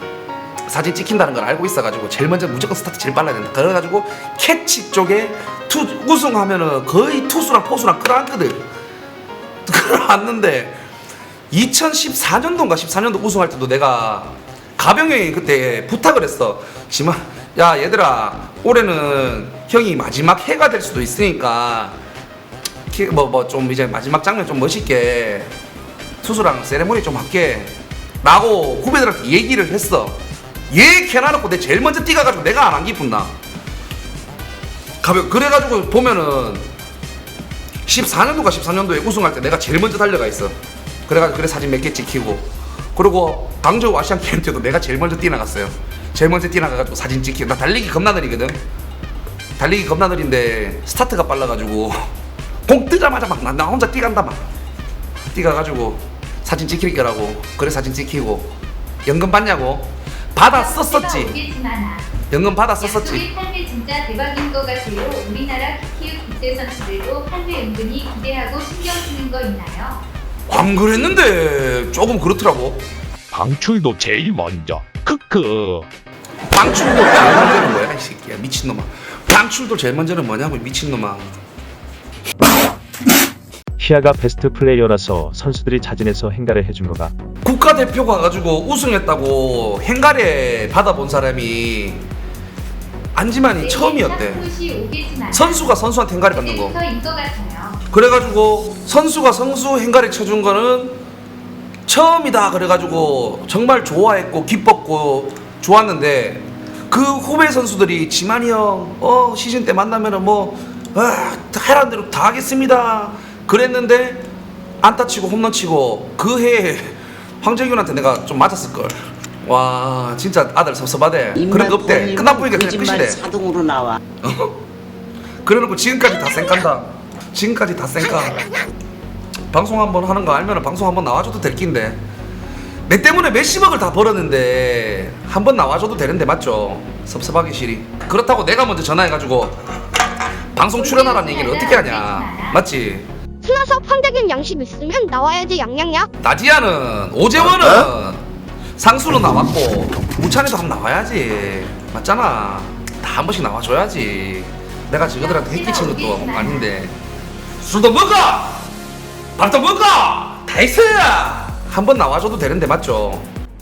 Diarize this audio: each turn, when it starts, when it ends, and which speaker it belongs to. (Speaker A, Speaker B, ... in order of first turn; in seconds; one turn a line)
Speaker A: 0.7-8.6
Speaker A: 9.7-10.8
Speaker A: 11.5-21.9
Speaker A: 22.9-25.5
Speaker A: 26.2-30.2
Speaker A: 30.7-33.3
Speaker A: 35.0-36.7
Speaker A: 37.9-40.5
Speaker A: 41.1-48.6
Speaker A: 49.6-52.1
Speaker A: 52.7-54.5
Speaker A: 55.3-58.5
Speaker A: 59.0-61.3
Speaker B: 60.4-62.1
Speaker A: 62.3-63.2
Speaker B: 62.8-70.0
Speaker A: 70.5-72.8
Speaker C: 73.3-75.9
Speaker A: 76.5-81.3
Speaker D: 83.8-87.1
Speaker A: 87.4-92.0
Speaker A: 93.1-94.5
Speaker B: 93.6-97.8
Speaker A: 95.3-96.8
Speaker A: 97.9-101.0
Speaker A: 101.9-114.3
Speaker A: 114.8-123.2
Speaker E: 121.3-124.0
Speaker A: 124.2-124.6
Speaker A: 125.4-128.5
Speaker A: 129.5-132.0
Speaker A: 132.9-139.6
Speaker A: 140.5-143.1
Speaker B: 140.8-142.6
Speaker F: 143.4-146.1
Speaker A: 146.2-148.2
Speaker A: 148.8-156.9
Speaker B: 155.2-156.7
Speaker A: 157.6-158.6
Speaker A: 159.4-163.3